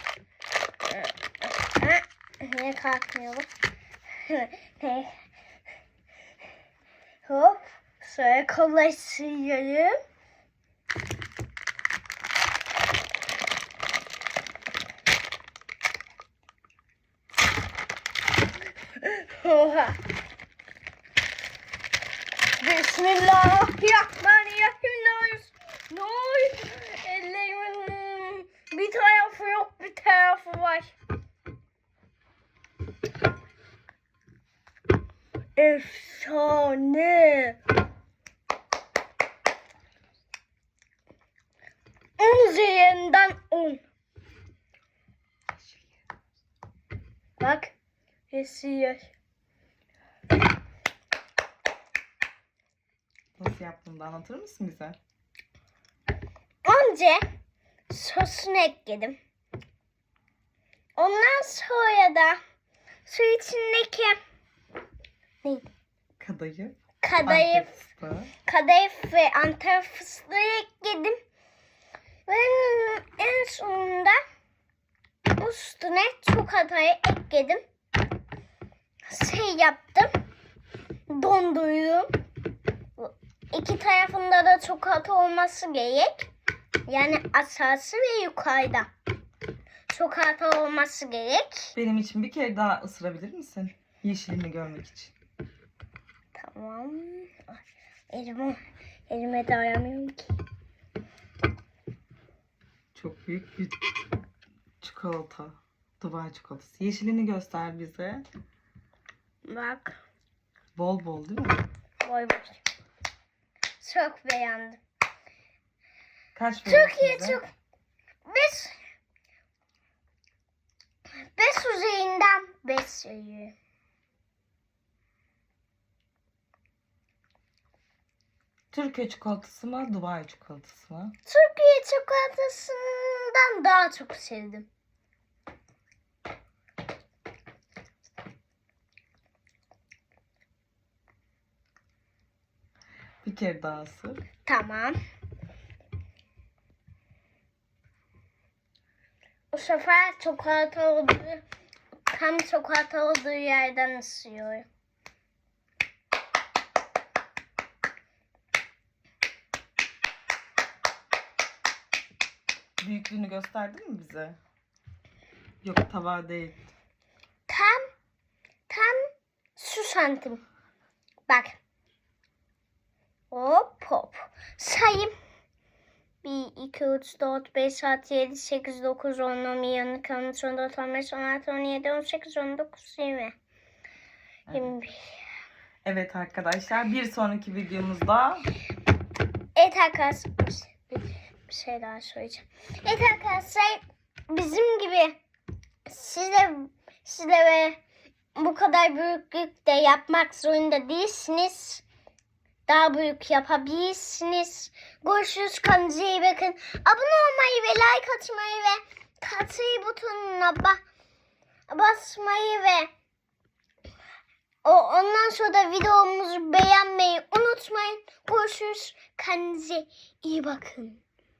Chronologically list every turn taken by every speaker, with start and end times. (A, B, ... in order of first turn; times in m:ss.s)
0:00.9-0:03.5 A
0:04.2-0:05.1 A
0:07.2-0:10.0 A
0:19.0-0:20.0 A
0:22.6-0:30.9 A
0:35.6-0:37.6 A
0:42.2-0:43.8 A
0:45.6-0:45.8 B
0:47.4-0:47.7 A
0:48.3-0:49.1 A
0:53.4-0:55.0 B
0:56.6-0:57.2 A
0:57.9-0:59.2 A
1:01.0-1:02.4 A
1:03.0-1:04.2 A
1:06.2-1:08.3 B
1:07.0-1:07.7 A
1:08.4-1:11.2 A
1:12.3-1:14.2 A
1:15.4-1:17.6 A
1:19.1-1:20.1 A
1:21.1-1:22.1 A
1:23.0-1:26.3 A
1:26.9-1:28.9 A
1:29.9-1:31.7 A
1:31.7-1:35.1 B
1:36.3-1:37.4 A
1:38.1-1:40.3 A
1:42.9-1:43.8 B
1:44.8-1:48.2 B
1:49.4-1:50.0 A
1:50.7-1:51.6 B
1:52.0-1:52.6 A
1:53.8-1:54.8 A
1:56.4-1:57.4 B
1:56.6-1:57.5 A
1:58.2-1:58.8 A
2:01.2-2:03.5 A
2:08.7-2:11.1 B
2:11.2-2:14.7 A
2:23.2-2:24.2 B
2:24.4-2:25.0 A
2:29.5-2:31.4 A
2:32.1-2:34.6 A
2:42.8-2:44.4 B
2:45.6-2:46.6 B
2:47.5-2:47.8 A
2:48.7-2:49.0 A
2:49.6-2:50.4 A
2:51.3-2:51.6 A
2:53.3-2:55.1 A
2:56.2-3:03.3 A
3:04.5-3:04.7 B
3:04.5-3:05.2 A
3:05.8-3:08.5 B
3:09.6-3:15.2 A
3:15.8-3:17.8 A
3:18.3-3:21.8 A
3:22.7-3:30.8 A
3:31.7-3:32.9 A
3:34.6-3:41.0 A